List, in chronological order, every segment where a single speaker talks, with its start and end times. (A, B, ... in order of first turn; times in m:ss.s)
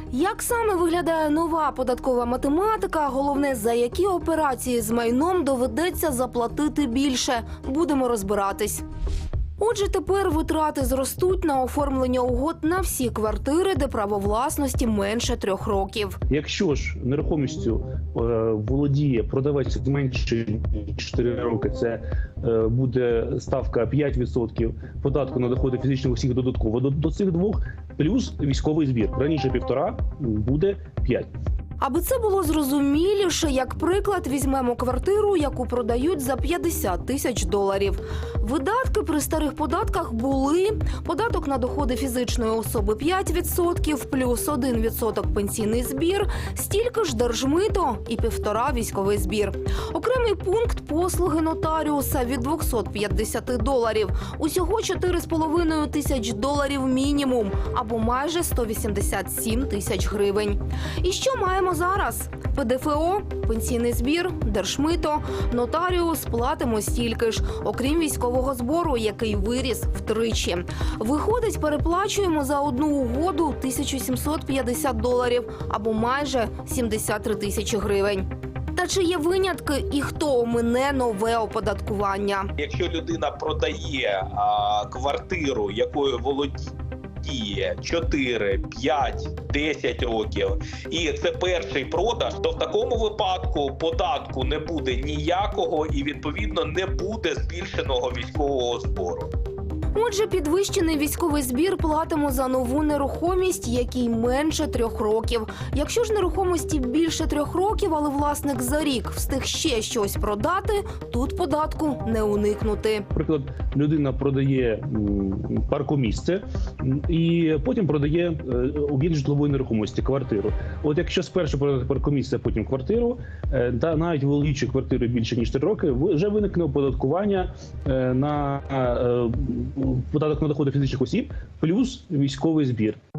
0:00.1-0:08.8 A
0:09.6-0:16.2 A
0:16.3-0:31.3 B
0:31.8-1:22.5 A
1:22.6-1:39.3 C
1:39.9-1:53.1 A
1:53.1-2:13.0 B